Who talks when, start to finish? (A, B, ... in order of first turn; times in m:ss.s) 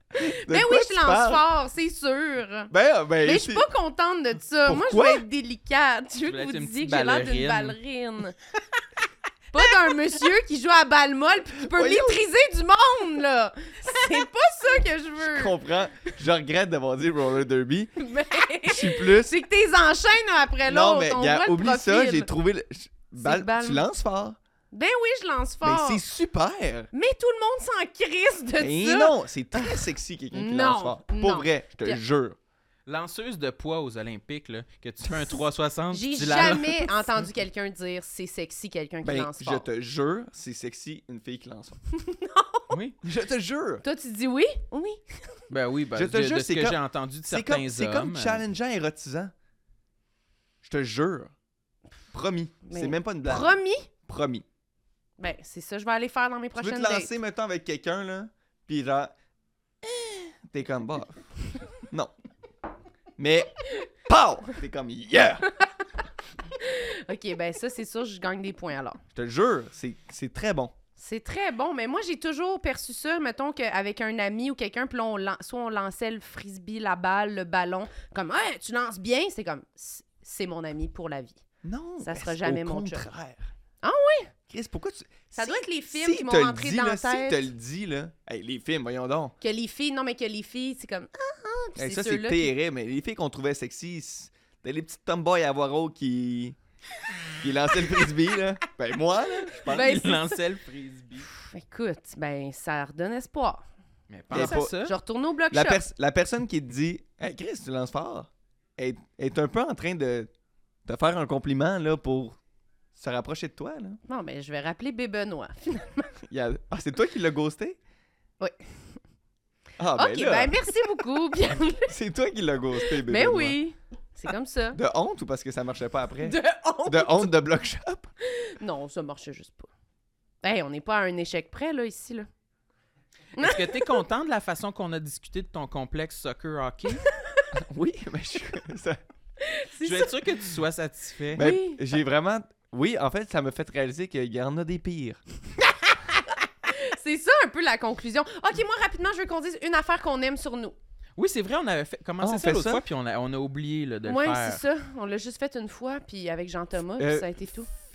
0:00.1-0:02.7 A
0:00.2-0:01.4 B
0:02.7-0:03.7 B
0:03.2-0:08.4 A
0:04.6-0:05.2 B
0:06.2-0:07.8 C
0:09.5-0:15.6 A
0:11.6-0:12.2 B
0:15.2-0:17.9 B
0:18.0-0:22.3 A
0:18.6-0:19.3 B
0:20.6-0:24.4 B
0:23.2-0:23.8 A
0:24.7-0:26.0 A
0:25.6-0:26.9 B
0:26.9-0:32.0 A
0:28.6-0:32.4 B
0:32.9-0:37.1 C
0:35.9-0:39.7 A
0:39.0-0:41.8 B
0:41.9-0:42.7 A
0:42.7-0:43.0 C
0:43.0-0:43.8 B
0:43.8-0:45.4 A
0:45.5-0:48.4 C
0:45.9-0:49.3 B
0:50.6-0:51.3 B
0:52.1-0:53.5 B
0:52.6-0:53.9 A
0:54.0-0:54.4 B
0:55.2-0:57.1 A
0:56.6-0:59.1 B
0:59.8-1:01.2 B
1:01.8-1:02.1 B
1:03.2-1:05.5 B
1:06.5-1:09.0 A
1:09.1-1:10.7 B
1:11.0-1:21.4 A
1:21.6-1:23.5 B
1:22.0-1:23.1 A
1:23.8-1:24.3 A
1:24.5-1:29.4 B
1:25.3-1:27.5 A
1:29.4-1:32.5 A
1:31.8-1:36.6 B
1:37.4-1:40.2 B
1:39.6-1:41.3 C
1:39.6-1:40.4 A
1:41.3-1:43.6 A
1:44.1-1:44.9 C
1:44.3-1:44.7 B
1:44.3-1:45.8 A
1:45.5-1:50.3 B
1:50.8-1:52.4 B
1:52.9-1:54.0 B
1:54.1-1:56.1 A
1:56.3-1:57.8 B
1:58.4-1:58.7 A
1:59.8-2:00.7 B
1:59.9-2:01.9 A
2:01.8-2:03.6 B
2:02.9-2:04.8 A
2:04.7-2:08.1 B
2:06.2-2:07.3 A
2:08.2-2:09.7 A
2:10.4-2:12.3 A
2:13.4-2:14.0 A
2:13.4-2:17.0 C
2:17.0-2:17.5 A
2:17.5-2:19.0 B
2:19.4-2:20.2 A
2:19.8-2:21.4 C
2:21.3-2:25.2 B
2:21.4-2:21.8 A
2:25.8-2:30.8 A
2:31.2-2:34.6 C
2:32.2-2:32.8 B
2:34.0-2:37.7 A
2:37.0-2:37.3 B